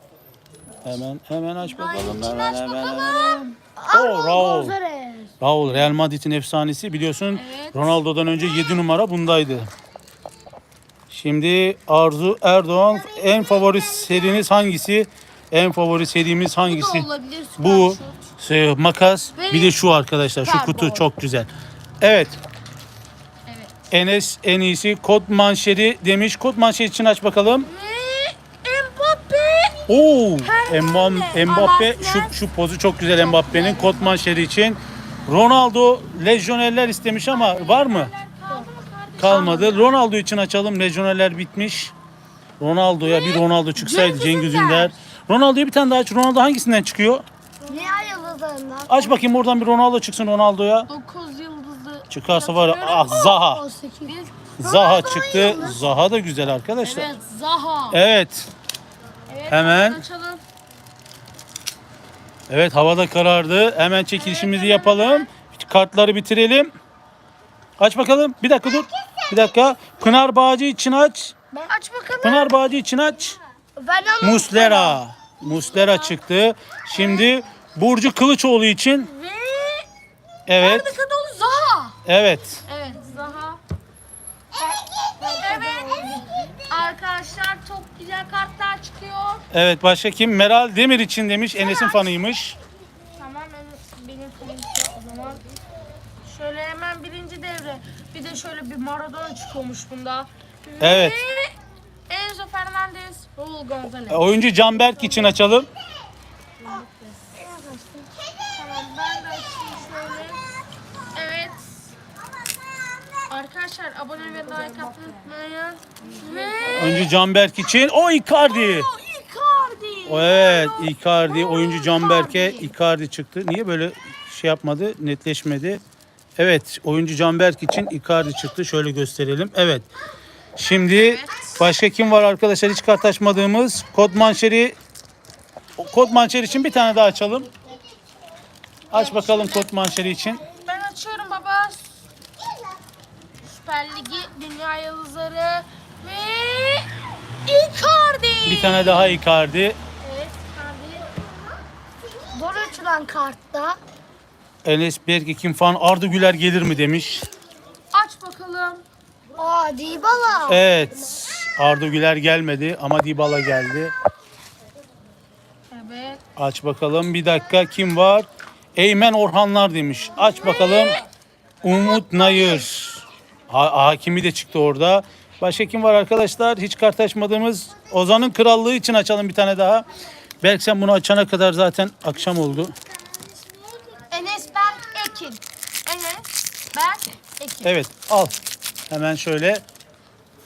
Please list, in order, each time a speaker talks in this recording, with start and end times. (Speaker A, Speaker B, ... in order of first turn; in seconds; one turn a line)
Speaker A: 0.8-4.8
Speaker B: 1.7-3.5
Speaker C: 3.0-5.3
Speaker A: 5.4-9.7
Speaker B: 7.3-7.9
Speaker A: 11.1-22.4
Speaker C: 13.0-14.4
Speaker B: 16.7-18.2
Speaker B: 19.4-19.8
Speaker B: 20.4-21.1
Speaker B: 23.4-23.7
Speaker A: 23.9-27.7
Speaker B: 27.7-29.8
Speaker A: 29.9-38.1
Speaker B: 30.4-32.3
Speaker B: 33.2-34.4
Speaker B: 37.3-39.9
Speaker A: 39.2-41.9
Speaker A: 42.6-47.2
Speaker B: 43.0-44.9
Speaker C: 47.6-49.2
Speaker A: 48.9-50.9
Speaker B: 50.9-53.3
Speaker A: 52.1-53.6
Speaker C: 52.9-55.8
Speaker B: 54.0-54.5
Speaker A: 54.6-57.1
Speaker B: 56.8-58.0
Speaker A: 57.9-58.5
Speaker B: 59.3-60.4
Speaker A: 59.5-60.0
Speaker A: 62.5-66.7
Speaker B: 64.2-65.3
Speaker A: 67.8-71.3
Speaker C: 69.0-69.5
Speaker B: 71.7-72.5
Speaker A: 72.2-73.4
Speaker C: 73.8-75.0
Speaker B: 74.0-74.6
Speaker A: 74.2-79.1
Speaker B: 75.7-76.2
Speaker B: 76.9-77.3
Speaker B: 79.0-79.9
Speaker A: 80.5-80.9
Speaker B: 80.6-82.0
Speaker A: 82.0-82.6
Speaker B: 82.7-83.6
Speaker C: 84.6-86.6
Speaker B: 85.2-89.4
Speaker A: 89.5-92.6
Speaker B: 93.1-95.4
Speaker B: 96.2-101.5
Speaker A: 100.8-101.2
Speaker B: 102.1-104.2
Speaker A: 104.1-105.7
Speaker B: 106.6-107.1
Speaker C: 107.3-108.2
Speaker B: 108.5-110.4
Speaker B: 111.1-111.9
Speaker B: 113.3-117.1
Speaker A: 116.7-118.9
Speaker B: 118.4-122.6
Speaker A: 120.0-125.8
Speaker C: 122.0-122.5
Speaker A: 126.4-129.9
Speaker A: 130.6-134.8
Speaker B: 130.9-131.6
Speaker A: 135.8-137.5
Speaker A: 138.9-140.4
Speaker B: 138.9-139.7
Speaker B: 140.5-141.9
Speaker B: 143.4-146.9
Speaker B: 147.4-149.2
Speaker A: 148.4-149.8
Speaker B: 150.0-151.2
Speaker C: 152.3-153.8
Speaker A: 154.6-157.2
Speaker B: 157.9-158.8
Speaker C: 159.4-160.6
Speaker A: 160.5-163.9
Speaker B: 165.7-166.2
Speaker A: 166.3-171.0
Speaker B: 170.2-171.0
Speaker A: 171.6-179.9
Speaker B: 171.9-172.7
Speaker A: 180.4-182.7
Speaker C: 183.4-184.0
Speaker B: 184.1-187.8
Speaker A: 187.6-188.3
Speaker A: 188.9-189.6